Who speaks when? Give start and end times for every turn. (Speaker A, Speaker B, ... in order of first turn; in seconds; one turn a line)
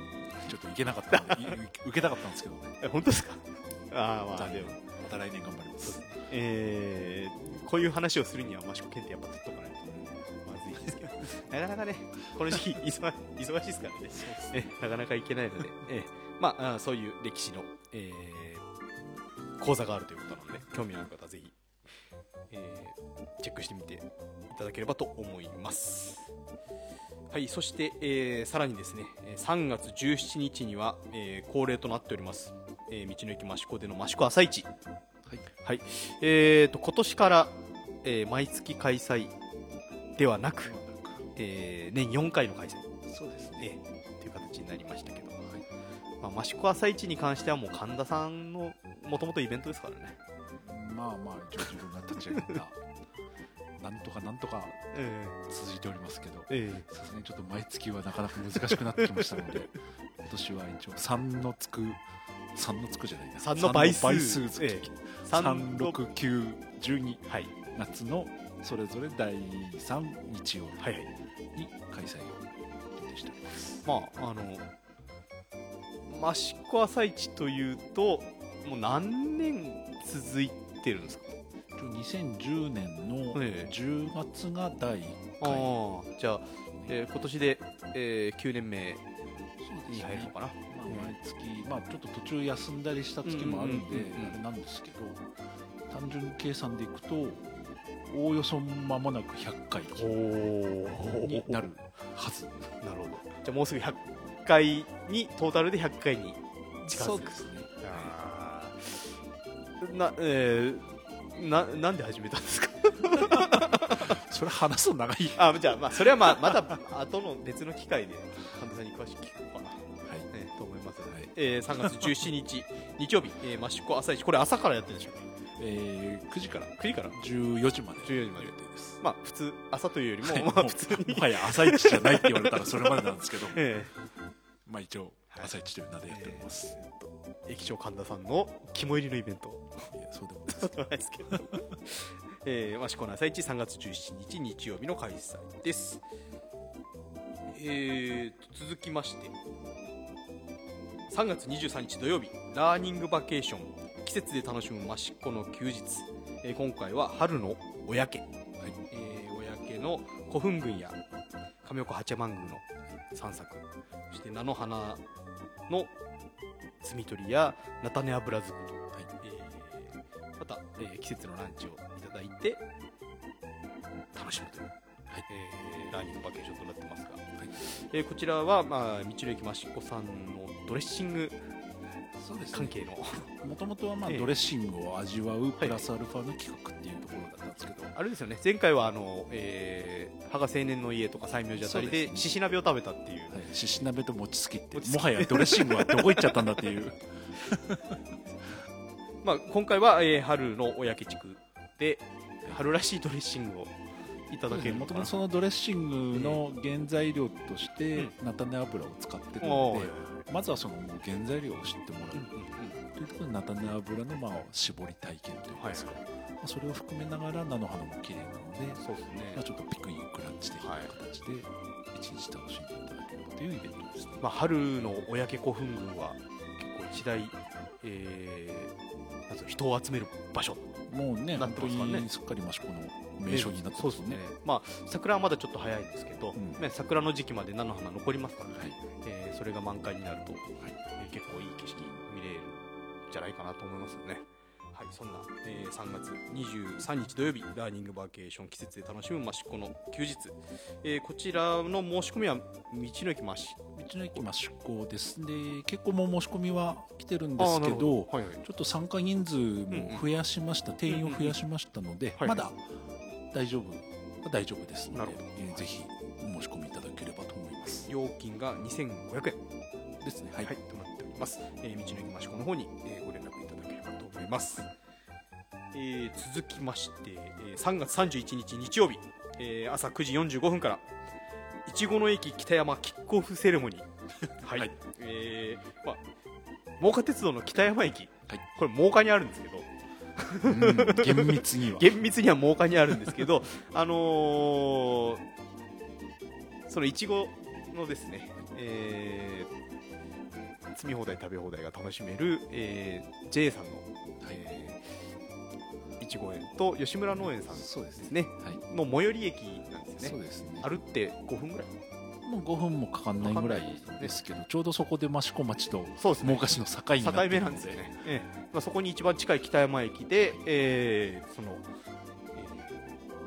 Speaker A: 0.3-2.8
Speaker B: 1.1-1.6
Speaker B: 2.8-4.8
Speaker A: 4.3-6.0
Speaker B: 5.8-18.6
Speaker A: 14.2-14.7
Speaker B: 19.6-21.6
Speaker B: 22.5-26.3
Speaker B: 27.3-34.7
Speaker B: 35.6-39.3
Speaker B: 40.2-40.8
Speaker A: 40.6-41.3
Speaker B: 41.4-42.9
Speaker A: 43.1-43.7
Speaker B: 43.6-45.4
Speaker B: 46.2-50.2
Speaker A: 50.5-52.8
Speaker A: 53.8-54.8
Speaker B: 54.9-55.4
Speaker A: 55.5-62.0
Speaker B: 56.5-56.9
Speaker B: 59.0-59.5
Speaker A: 62.5-70.9
Speaker B: 63.4-66.0
Speaker B: 67.3-67.5
Speaker B: 70.8-71.1
Speaker A: 71.5-73.7
Speaker B: 73.8-74.7
Speaker B: 76.1-81.3
Speaker A: 81.8-85.8
Speaker B: 83.3-83.7
Speaker B: 85.4-89.0
Speaker A: 89.6-95.2
Speaker B: 89.9-91.1
Speaker B: 93.2-94.4
Speaker A: 95.9-97.5
Speaker A: 98.1-100.2
Speaker B: 100.0-101.7
Speaker A: 101.1-102.6
Speaker B: 102.8-106.4
Speaker A: 106.8-108.1
Speaker B: 106.9-109.1
Speaker B: 109.8-114.2
Speaker A: 113.2-116.7
Speaker B: 115.4-125.3
Speaker A: 125.6-129.0
Speaker B: 126.8-127.2
Speaker B: 128.0-133.9
Speaker A: 130.2-133.6
Speaker A: 134.7-136.7
Speaker B: 136.1-139.9
Speaker A: 139.9-140.8
Speaker B: 140.5-146.0
Speaker A: 141.3-141.6
Speaker B: 147.5-149.3
Speaker B: 151.1-158.3
Speaker B: 158.9-161.0
Speaker B: 161.6-165.0
Speaker B: 166.8-172.6
Speaker B: 174.1-174.7
Speaker B: 175.3-181.4
Speaker A: 182.2-187.9
Speaker B: 182.5-183.3
Speaker B: 184.1-184.3
Speaker B: 185.6-185.8
Speaker B: 187.9-193.3
Speaker A: 191.6-192.3
Speaker A: 193.3-198.0
Speaker B: 194.8-196.8
Speaker B: 199.2-203.8
Speaker B: 204.3-205.2
Speaker A: 204.5-212.3
Speaker B: 206.1-206.4
Speaker B: 209.4-210.2
Speaker B: 212.1-212.8
Speaker A: 212.9-224.2
Speaker B: 215.6-216.0
Speaker B: 218.8-219.4
Speaker B: 220.6-220.9
Speaker B: 224.2-228.7
Speaker B: 229.3-230.7
Speaker A: 230.9-234.2
Speaker B: 231.4-232.1
Speaker B: 233.3-240.4
Speaker A: 236.3-236.7
Speaker B: 241.0-244.2
Speaker B: 244.7-254.2
Speaker A: 253.8-262.6
Speaker B: 257.4-258.4
Speaker B: 259.7-260.1
Speaker B: 260.9-261.4
Speaker A: 263.3-267.9
Speaker B: 264.9-265.6
Speaker B: 267.8-269.4
Speaker A: 270.0-270.5
Speaker B: 270.4-274.7
Speaker B: 275.7-280.8
Speaker B: 281.7-283.9
Speaker A: 284.3-284.7
Speaker B: 284.4-286.0
Speaker B: 286.8-295.2
Speaker A: 290.4-292.0
Speaker B: 296.7-299.5
Speaker B: 300.7-304.9
Speaker B: 306.0-311.7
Speaker A: 307.2-308.6
Speaker A: 310.0-310.7
Speaker A: 312.2-317.8
Speaker B: 313.2-314.1
Speaker B: 316.0-316.5
Speaker B: 317.0-321.6
Speaker B: 322.4-322.8